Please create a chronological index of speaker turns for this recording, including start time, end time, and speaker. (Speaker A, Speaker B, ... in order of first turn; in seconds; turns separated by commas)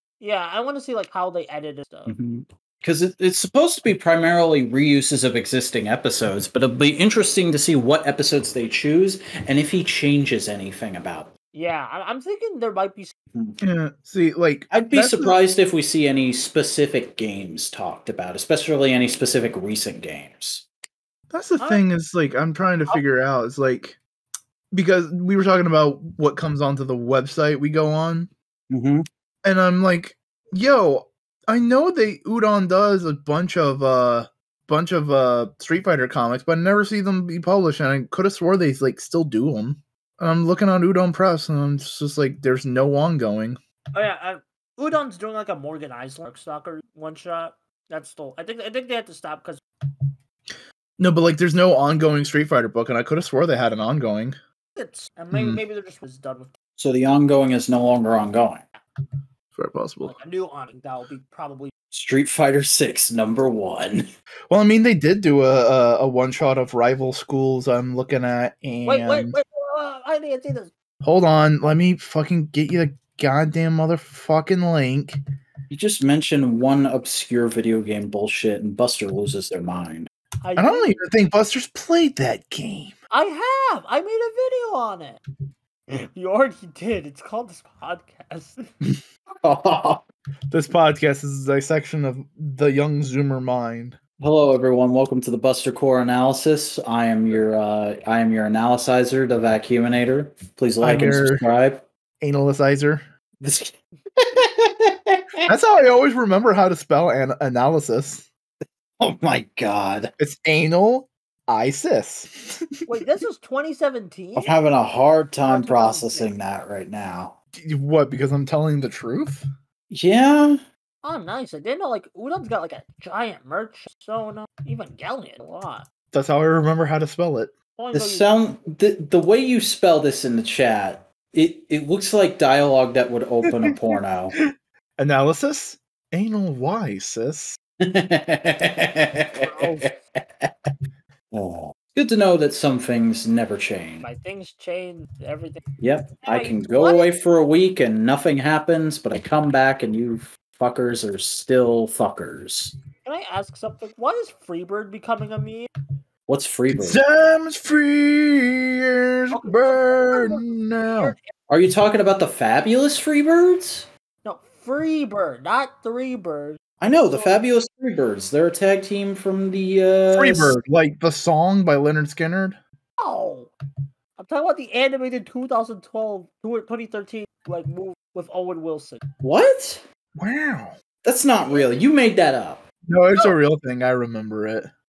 Speaker A: 0.2-2.1, Speaker B: 2.1-11.3, Speaker A: 11.5-13.1, Speaker C: 13.6-15.4, Speaker B: 14.7-20.7, Speaker C: 21.3-24.0, Speaker A: 21.6-21.8, Speaker C: 24.7-28.3, Speaker B: 28.7-29.1, Speaker C: 29.4-43.6, Speaker A: 43.9-49.6, Speaker C: 51.0-54.4, Speaker A: 54.8-56.5, Speaker C: 55.3-55.6, Speaker B: 56.8-58.6, Speaker C: 59.5-60.2, Speaker A: 60.0-61.7, Speaker B: 61.9-64.0, Speaker C: 64.5-69.4, Speaker A: 68.9-70.7, Speaker C: 71.0-75.2, Speaker B: 75.7-80.1, Speaker A: 80.4-81.0, Speaker C: 80.6-83.0, Speaker A: 83.1-85.2, Speaker A: 86.1-88.6, Speaker B: 89.4-90.0, Speaker C: 90.5-94.0, Speaker B: 94.2-101.8, Speaker C: 100.8-101.5, Speaker C: 102.2-103.0, Speaker B: 103.4-105.4, Speaker C: 105.5-108.3, Speaker B: 109.0-110.1, Speaker C: 110.2-113.2, Speaker A: 112.9-114.5, Speaker B: 114.4-117.4, Speaker A: 115.5-116.3, Speaker C: 117.5-119.4, Speaker B: 119.9-120.6, Speaker A: 121.0-125.9, Speaker C: 126.1-127.5, Speaker A: 127.8-128.3, Speaker B: 127.9-134.4, Speaker C: 135.0-137.6, Speaker B: 137.8-140.7, Speaker A: 139.4-139.9, Speaker B: 141.3-144.1, Speaker A: 144.0-145.6, Speaker B: 145.8-152.7, Speaker A: 146.2-147.1, Speaker A: 153.1-155.7, Speaker B: 156.3-157.0, Speaker C: 156.7-161.2, Speaker A: 159.3-161.2, Speaker B: 161.5-163.9, Speaker A: 164.2-167.4, Speaker B: 166.8-170.6, Speaker C: 170.1-172.6, Speaker A: 173.0-173.5, Speaker A: 174.2-179.0, Speaker B: 179.2-179.8, Speaker C: 180.2-180.8, Speaker B: 181.0-182.6, Speaker C: 182.9-184.7